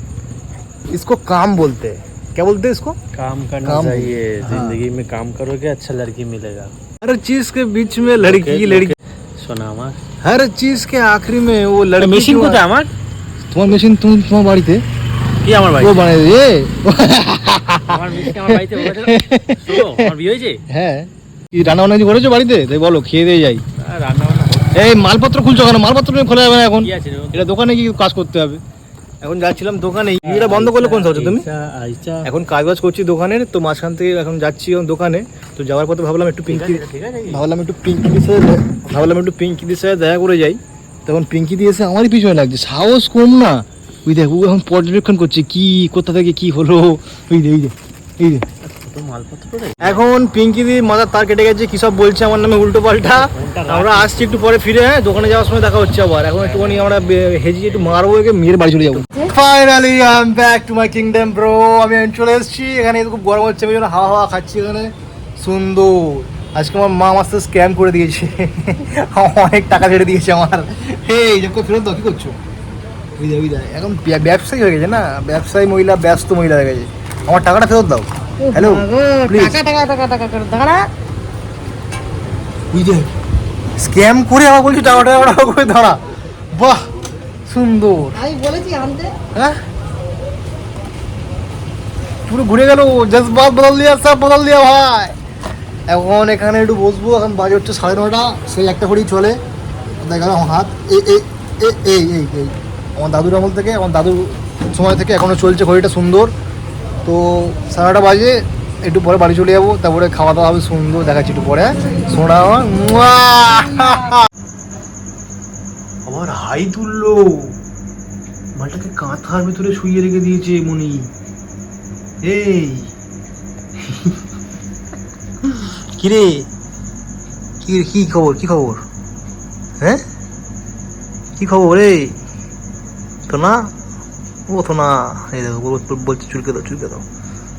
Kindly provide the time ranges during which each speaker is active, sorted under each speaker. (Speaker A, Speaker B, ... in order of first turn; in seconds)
Speaker A: 0.9-3.0, 3.6-4.8, 7.0-8.9, 10.2-12.6, 13.5-14.8, 15.8-20.1, 20.7-23.6, 24.7-28.6, 29.2-31.5, 32.2-48.5, 49.8-72.4, 73.2-79.7, 82.7-83.1, 83.8-86.0, 86.5-86.8, 87.5-88.2, 92.3-95.2, 95.9-99.4, 100.0-106.3, 107.0-114.2, 116.1-117.5, 118.5-121.1, 122.2-122.9, 125.5-126.5, 127.6-128.8, 131.4-132.2, 133.3-133.7, 134.5-137.1
Speaker B: 3.1-6.7, 8.2-10.0, 12.0-12.9, 15.4-16.1, 17.9-20.6, 23.8-24.9, 26.8-27.5, 30.2-32.3, 36.5-37.4, 48.6-50.0, 53.1-54.5, 56.4-57.0, 57.7-58.0
Speaker C: 79.7-80.8, 88.3-89.1